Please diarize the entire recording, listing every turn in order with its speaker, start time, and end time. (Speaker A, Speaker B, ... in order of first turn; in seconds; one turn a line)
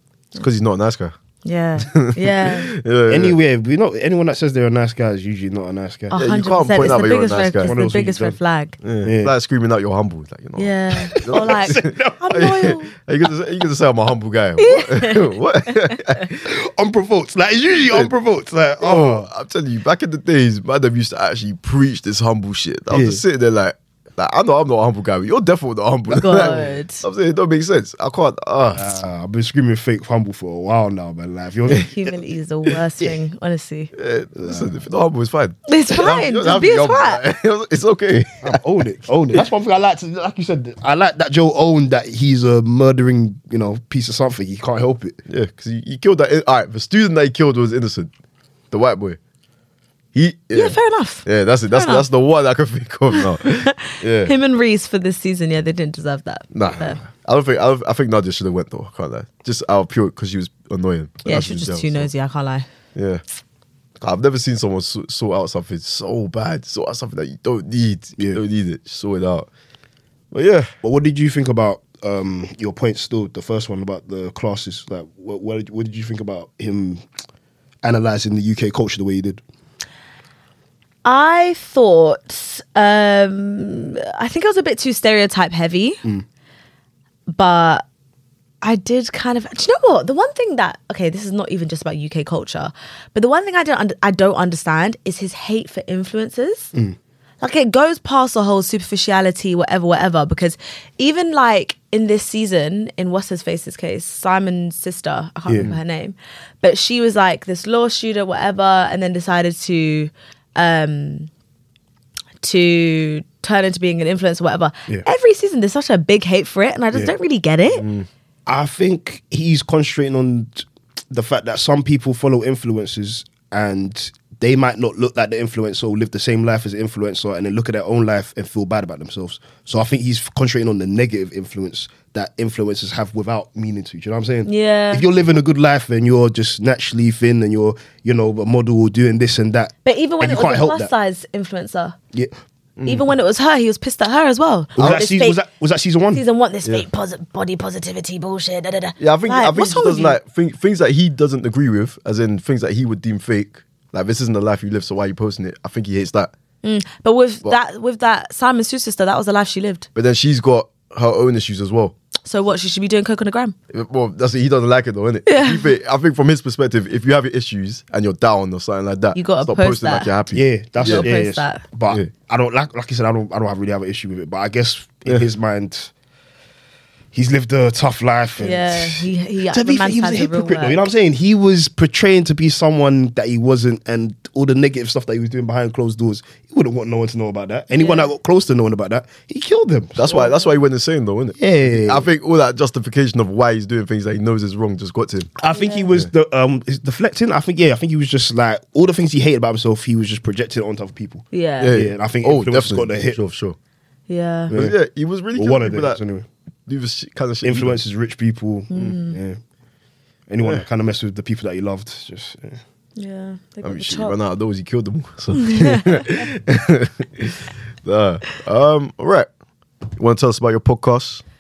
Speaker A: 0.4-1.1
Speaker B: 1.4-2.7
Speaker A: 1.8-3.4
Speaker C: 3.1-6.2
Speaker B: 6.1-8.8
Speaker A: 6.1-7.8
Speaker C: 7.6-8.4
Speaker A: 8.8-16.4
Speaker C: 9.0-9.3
Speaker B: 10.6-12.9
Speaker C: 11.1-12.7
Speaker B: 14.6-16.0
Speaker C: 16.4-19.3
Speaker A: 17.9-18.1
Speaker A: 18.8-29.0
Speaker C: 22.9-23.2
Speaker C: 26.1-26.8
Speaker B: 26.2-27.0
Speaker C: 28.8-31.9
Speaker B: 31.7-33.9
Speaker A: 33.9-38.6
Speaker C: 34.4-34.8
Speaker B: 35.7-37.2
Speaker C: 38.4-45.2
Speaker A: 45.3-48.1
Speaker A: 48.7-49.2
Speaker A: 50.1-54.3
Speaker B: 50.5-52.1
Speaker B: 53.1-57.0
Speaker A: 56.5-62.1
Speaker B: 61.2-62.7
Speaker A: 62.9-63.2
Speaker A: 64.0-69.5
Speaker C: 68.2-68.4
Speaker A: 70.3-70.7
Speaker C: 70.8-77.0
Speaker C: 77.8-79.4
Speaker B: 81.0-86.0
Speaker B: 87.3-87.8
Speaker B: 88.6-96.7
Speaker B: 97.4-111.3
Speaker C: 105.5-105.7
Speaker B: 112.4-117.8
Speaker A: 117.7-118.1
Speaker C: 118.5-140.9
Speaker B: 134.4-135.1
Speaker B: 139.8-142.0
Speaker A: 142.8-143.1
Speaker B: 142.9-145.4
Speaker C: 144.8-146.2
Speaker B: 146.1-150.2
Speaker A: 149.0-156.3
Speaker B: 156.6-159.9
Speaker A: 159.9-161.9
Speaker B: 162.2-163.6
Speaker A: 163.7-171.1
Speaker B: 165.3-165.7
Speaker B: 169.1-170.1
Speaker C: 170.3-175.9
Speaker B: 170.8-171.6
Speaker C: 177.1-190.3
Speaker B: 178.4-180.8
Speaker B: 187.7-188.1
Speaker A: 189.9-195.3
Speaker B: 190.1-190.4
Speaker C: 191.4-192.1
Speaker C: 195.4-203.2
Speaker B: 195.5-195.9
Speaker B: 201.3-201.7
Speaker A: 201.6-203.6
Speaker B: 204.1-204.5
Speaker C: 204.5-204.8
Speaker A: 204.5-206.0
Speaker C: 205.3-206.3
Speaker A: 206.7-207.8
Speaker C: 207.4-209.4
Speaker B: 208.7-209.2
Speaker C: 210.3-212.6
Speaker B: 213.0-214.2
Speaker A: 213.6-219.3
Speaker B: 215.3-216.2
Speaker A: 220.0-221.2